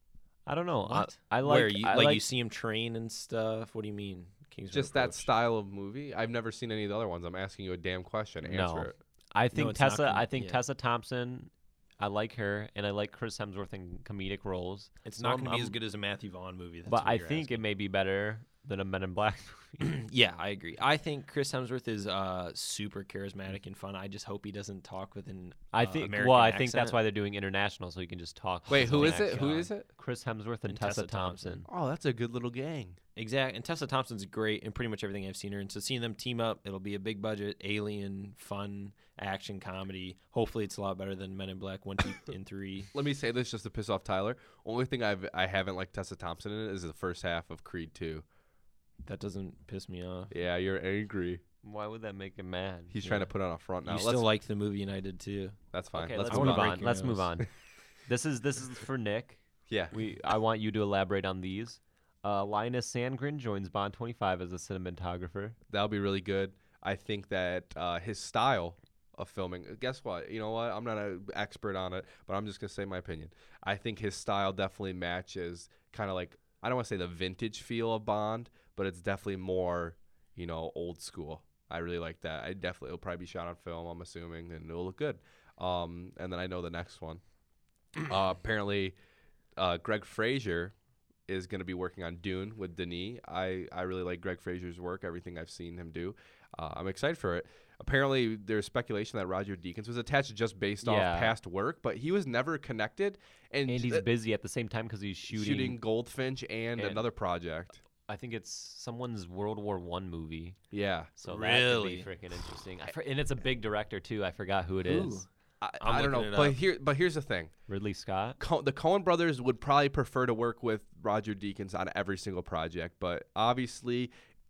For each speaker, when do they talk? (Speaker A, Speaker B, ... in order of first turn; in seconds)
Speaker A: 0.5-2.2, 8.4-15.8, 16.9-19.9, 25.7-31.7, 51.6-53.0, 55.9-57.5, 58.0-65.5, 100.8-101.3, 103.7-105.8, 106.8-107.0, 108.1-110.6, 111.2-115.2, 117.7-118.4
Speaker B: 0.8-5.3, 9.5-10.6, 15.0-17.6, 19.8-27.0, 28.7-29.7, 30.7-31.6, 33.1-42.9, 49.0-50.3, 53.0-53.3, 53.8-55.6, 56.3-57.3, 111.2-112.1, 114.9-115.2, 115.8-116.6
Speaker C: 4.7-8.9, 28.7-29.9, 31.7-33.0, 42.9-48.2, 50.3-51.4, 52.9-54.3, 55.7-56.8, 59.7-59.9, 65.7-87.2, 88.0-89.0, 89.6-90.7, 91.3-104.0, 105.3-107.8, 110.7-111.1, 114.9-117.5, 118.4-124.1